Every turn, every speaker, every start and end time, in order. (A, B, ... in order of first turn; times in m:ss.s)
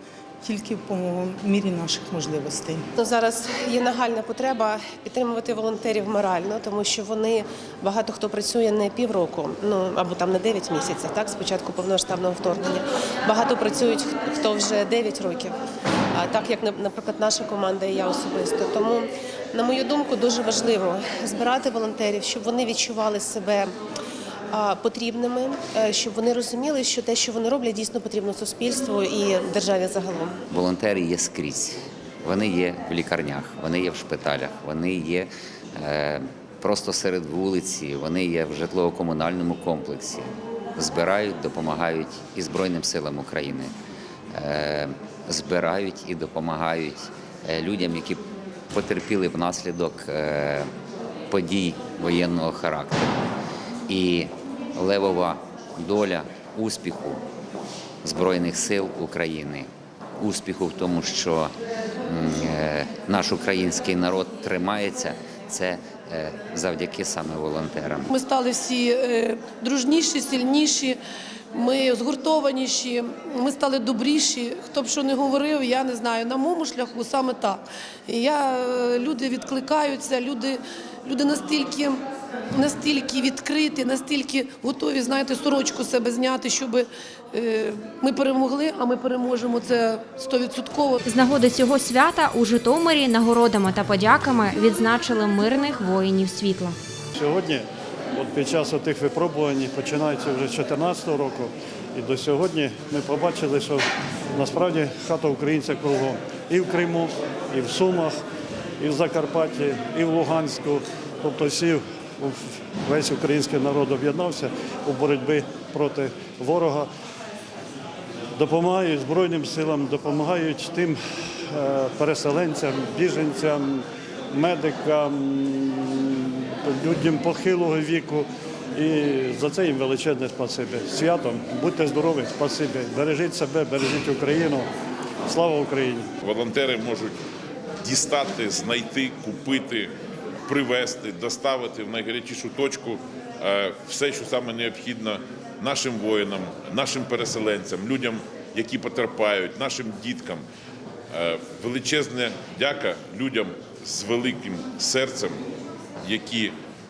0:00.4-0:02.8 A
0:03.0-0:15.5 B
0:16.1-0:23.7 B
0:24.5-0:30.4 B
0:30.5-0:43.7 C
0:44.3-0:50.7 C
0:51.3-0:53.2 C
0:53.9-0:57.2 C
0:58.0-0:59.7 C
1:00.2-1:01.5 C
1:02.1-1:08.1 C
1:08.1-1:11.0 D
1:11.5-1:22.0 D
1:22.6-1:31.0 D
1:31.0-1:36.8 E
1:37.3-1:48.2 F
1:48.8-1:56.9 F
1:58.4-2:14.7 F
2:15.3-2:16.1 F
2:16.2-2:17.1 G
2:17.8-2:19.9 G
2:20.5-2:30.4 G
2:31.1-2:35.4 G
2:36.0-2:36.6 G